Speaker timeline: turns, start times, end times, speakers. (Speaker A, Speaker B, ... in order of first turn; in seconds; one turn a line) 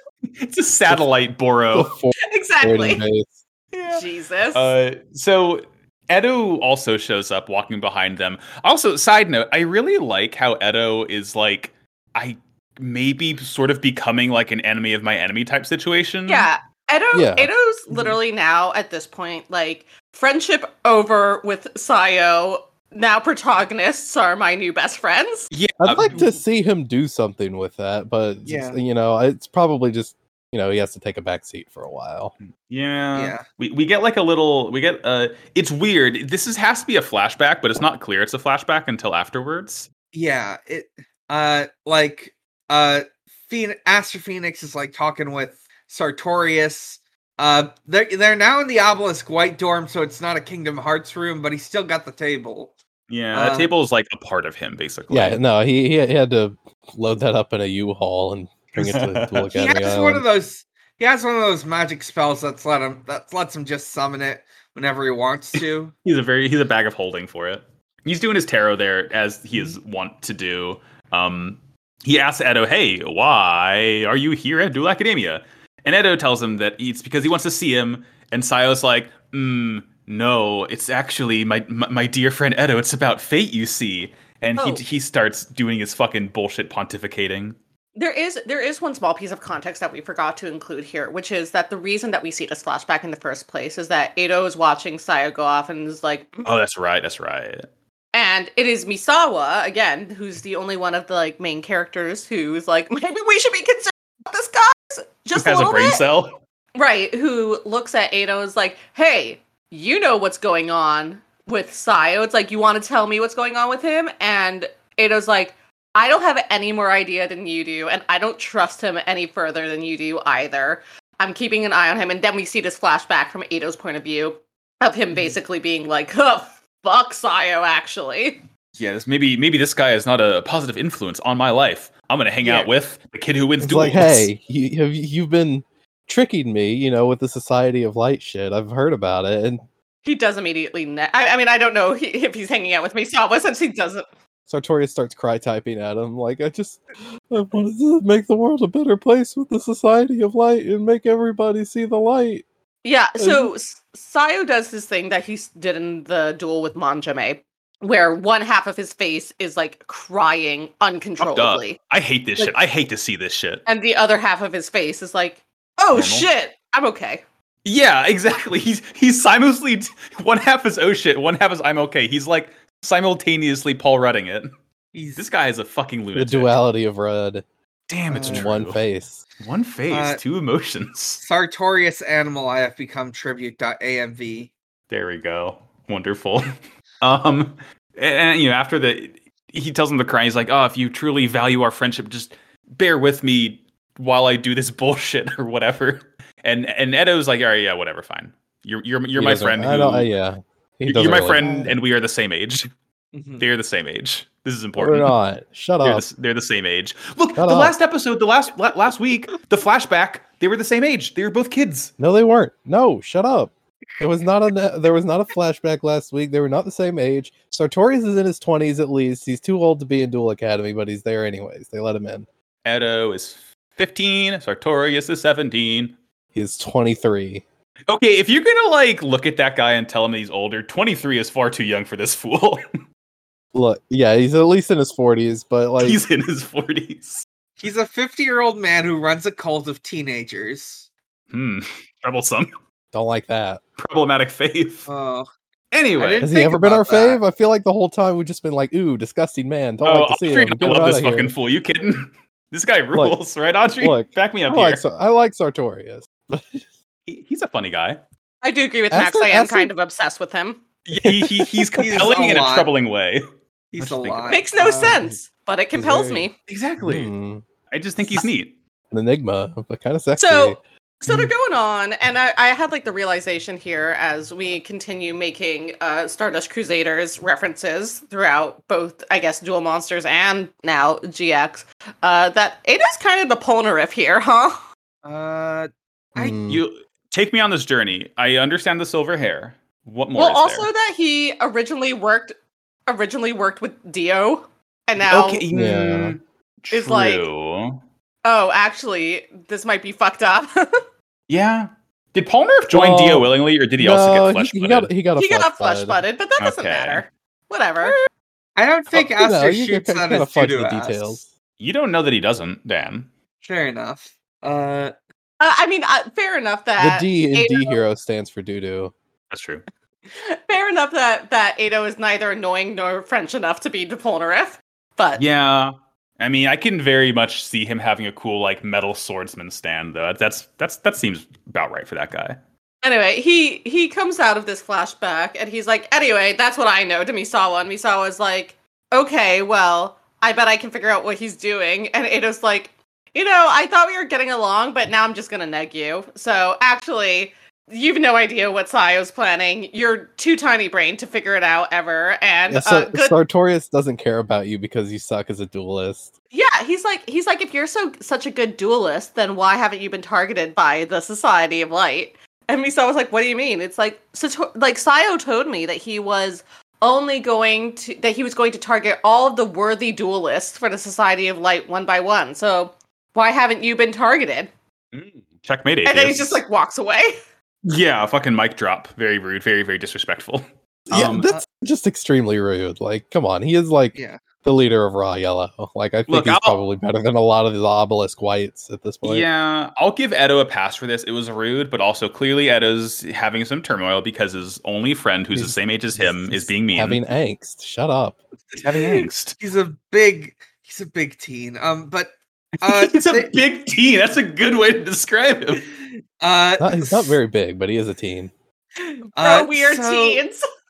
Speaker A: 0.4-1.9
Speaker B: 1.7-3.4
Speaker C: 2.2-3.0
Speaker A: 3.7-16.5
Speaker C: 3.9-4.7
Speaker C: 16.3-25.5
Speaker B: 17.1-17.5
Speaker A: 25.5-26.3
Speaker B: 25.8-32.3
Speaker D: 28.4-28.8
Speaker A: 32.7-39.9
Speaker D: 33.1-33.4
Speaker D: 40.1-52.7
Speaker A: 53.1-55.4
Speaker D: 53.3-53.7
Speaker B: 55.1-60.2
Speaker A: 58.7-59.5
Speaker D: 59.5-65.9
Speaker A: 65.5-87.5
Speaker C: 84.6-84.8
Speaker C: 88.0-96.5
Speaker A: 96.4-97.7
Speaker C: 98.1-106.0
Speaker A: 105.3-106.3
Speaker C: 106.7-128.4
Speaker A: 128.8-134.3
Speaker C: 132.4-132.7
Speaker B: 133.6-139.6
Speaker C: 140.0-144.1
Speaker B: 144.5-152.4
Speaker C: 152.8-161.8
Speaker B: 153.2-153.5
Speaker A: 161.2-163.6
Speaker C: 163.7-167.2
Speaker A: 165.9-166.3
Speaker A: 167.6-174.5
Speaker D: 174.9-175.2
Speaker A: 175.2-176.6
Speaker B: 176.1-177.4
Speaker A: 177.9-178.8
Speaker D: 178.1-178.5
Speaker B: 178.1-179.2
Speaker A: 179.4-181.2
Speaker D: 179.9-180.2
Speaker D: 181.2-184.5
Speaker A: 184.9-186.5
Speaker A: 187.0-200.1
Speaker B: 199.1-201.8
Speaker A: 200.8-202.7
Speaker D: 203.1-203.5
Speaker A: 203.4-205.1
Speaker B: 204.8-206.1
Speaker A: 205.8-211.9
Speaker B: 207.4-207.7
Speaker B: 212.0-222.3
Speaker A: 222.6-225.9
Speaker B: 226.3-227.4
Speaker A: 227.9-232.7
Speaker B: 233.5-236.0
Speaker A: 235.8-237.2
Speaker D: 237.6-240.9
Speaker A: 241.3-242.5
Speaker B: 242.9-243.6
Speaker A: 243.8-244.9
Speaker D: 244.9-245.3
Speaker A: 245.7-246.3
Speaker D: 246.0-247.2
Speaker B: 246.2-251.3
Speaker A: 249.8-254.8
Speaker B: 253.8-256.6
Speaker A: 257.1-258.0
Speaker C: 258.4-260.6
Speaker B: 258.9-259.7
Speaker A: 260.9-263.2
Speaker B: 261.0-261.9
Speaker D: 261.8-262.7
Speaker D: 263.7-265.0
Speaker A: 263.8-264.4
Speaker C: 264.3-266.3
Speaker B: 264.8-265.1
Speaker B: 265.7-266.3
Speaker A: 266.5-267.1
Speaker B: 266.8-267.4
Speaker A: 267.7-268.5
Speaker B: 268.0-268.3
Speaker B: 268.9-271.3
Speaker C: 270.2-284.6
Speaker D: 285.0-286.4
Speaker B: 286.1-286.6
Speaker A: 286.5-290.7
Speaker C: 290.1-292.3
Speaker C: 292.9-295.4
Speaker A: 295.0-297.8
Speaker B: 295.5-296.1
Speaker C: 296.7-297.2
Speaker C: 298.2-300.7
Speaker A: 301.3-304.9
Speaker B: 302.7-306.0
Speaker C: 305.1-307.9
Speaker A: 306.4-307.0
Speaker D: 308.6-311.2
Speaker B: 308.9-311.3
Speaker A: 311.6-313.1
Speaker D: 313.4-314.9
Speaker C: 315.4-317.8
Speaker B: 316.8-318.9
Speaker A: 319.3-319.6
Speaker C: 320.1-325.2
Speaker A: 325.2-332.4
Speaker C: 332.8-353.2
Speaker B: 352.5-356.1
Speaker C: 356.3-374.5
Speaker A: 374.9-376.4
Speaker C: 375.8-377.2
Speaker A: 377.6-381.3
Speaker B: 380.9-389.2
Speaker D: 383.9-384.2
Speaker A: 386.1-386.6
Speaker A: 389.0-397.0
Speaker B: 395.3-398.2
Speaker A: 398.6-399.4
Speaker D: 398.7-403.4
Speaker A: 402.6-405.7
Speaker D: 406.2-407.2
Speaker B: 406.6-408.3
Speaker C: 408.8-410.4
Speaker D: 409.2-410.2